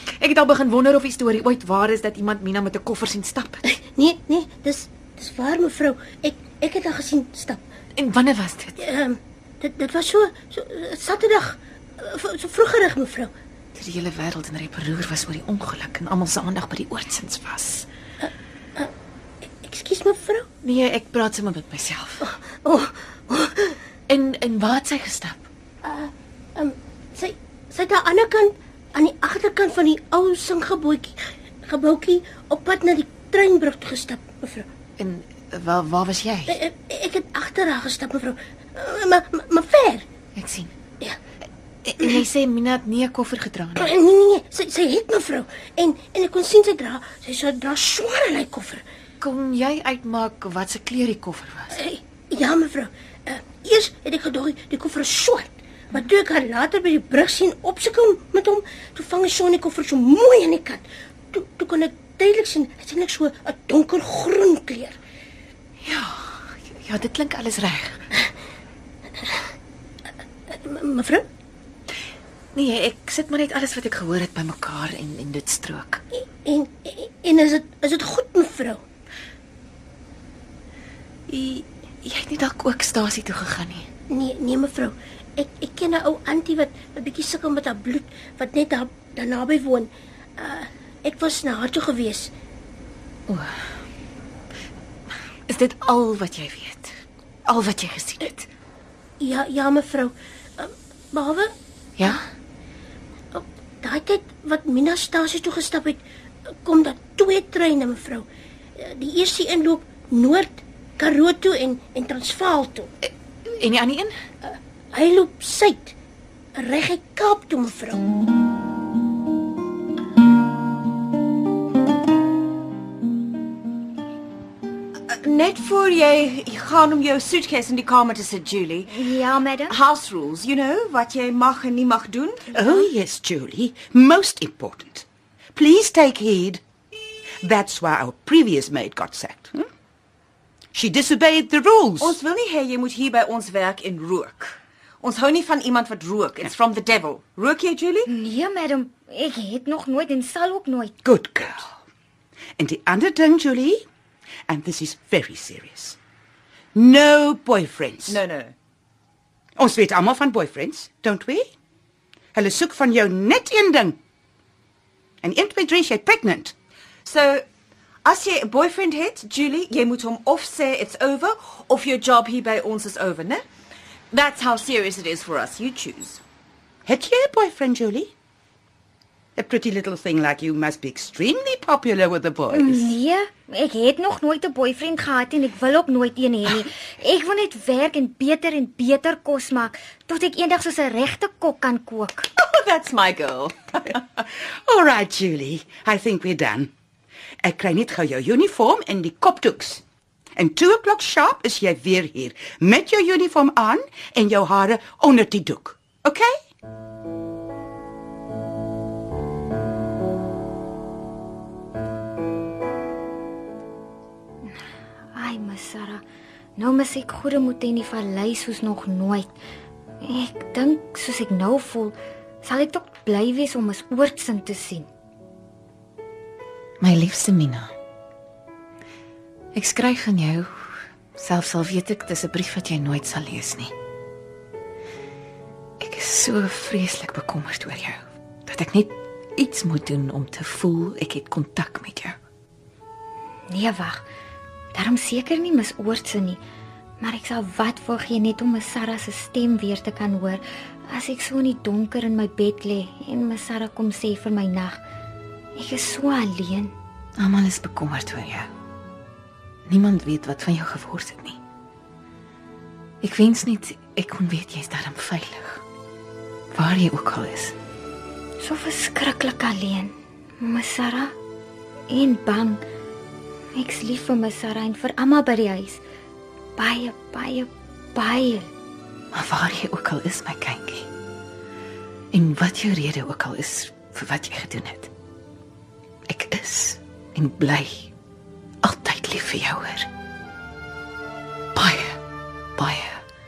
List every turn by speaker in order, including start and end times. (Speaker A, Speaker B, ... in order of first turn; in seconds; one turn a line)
Speaker A: 0.2-3.7
Speaker B: 4.0-7.6
Speaker A: 8.0-8.8
Speaker B: 8.9-13.3
Speaker A: 13.8-17.9
Speaker B: 19.6-20.5
Speaker A: 20.6-22.2
Speaker B: 22.6-23.7
Speaker A: 24.1-25.4
Speaker B: 25.9-34.7
Speaker A: 35.0-36.6
Speaker B: 36.5-40.0
Speaker A: 40.4-40.7
Speaker A: 41.9-44.0
Speaker B: 43.8-48.8
Speaker A: 49.2-51.7
Speaker B: 51.8-55.5
Speaker B: 56.0-65.0
Speaker A: 65.8-68.0
Speaker B: 70.7-71.2
Speaker A: 72.5-76.0
Speaker B: 76.5-78.8
Speaker A: 81.3-83.9
Speaker B: 84.1-92.3
Speaker A: 93.3-93.5
Speaker A: 95.5-96.9
Speaker A: 97.5-98.5
Speaker B: 99.2-101.5
Speaker A: 102.0-102.2
Speaker B: 103.3-106.0
Speaker B: 106.7-108.3
Speaker B: 108.8-112.9
Speaker A: 113.0-114.1
Speaker B: 114.9-115.9
Speaker B: 116.6-118.0
Speaker C: 125.1-129.2
Speaker D: 128.9-129.8
Speaker C: 129.7-132.5
Speaker E: 132.5-136.6
Speaker E: 137.4-139.7
Speaker E: 140.7-142.2
Speaker C: 142.0-148.1
Speaker D: 148.1-151.0
Speaker E: 151.0-151.7
Speaker E: 152.6-153.8
Speaker E: 154.5-156.0
Speaker E: 156.8-158.2
Speaker C: 158.1-158.6
Speaker E: 159.6-161.5
Speaker E: 162.3-164.0
Speaker E: 165.2-166.5
Speaker C: 167.1-167.4
Speaker C: 168.1-173.4
Speaker C: 174.1-176.2
Speaker E: 176.9-178.1
Speaker E: 179.4-182.9
Speaker D: 182.5-192.3
Speaker C: 192.4-194.0
Speaker E: 194.7-196.7
Speaker E: 197.4-199.8
Speaker E: 200.4-206.3
Speaker D: 215.1-216.0
Speaker D: 216.6-219.3
Speaker D: 220.0-224.9
Speaker A: 226.8-227.7
Speaker A: 229.5-230.5
Speaker A: 231.2-233.7
Speaker A: 235.8-242.2
Speaker D: 243.5-244.0
Speaker D: 244.7-246.4
Speaker D: 247.0-254.8
Speaker D: 255.6-256.7
Speaker A: 257.2-258.5
Speaker A: 259.7-261.4
Speaker A: 263.0-265.6
Speaker A: 266.5-267.6
Speaker D: 268.4-271.1
Speaker D: 271.9-272.6
Speaker D: 273.5-275.8
Speaker D: 276.6-278.5
Speaker A: 279.1-280.9
Speaker A: 282.1-284.9
Speaker A: 286.1-287.9
Speaker A: 288.6-289.9
Speaker A: 291.6-292.0
Speaker A: 292.6-293.0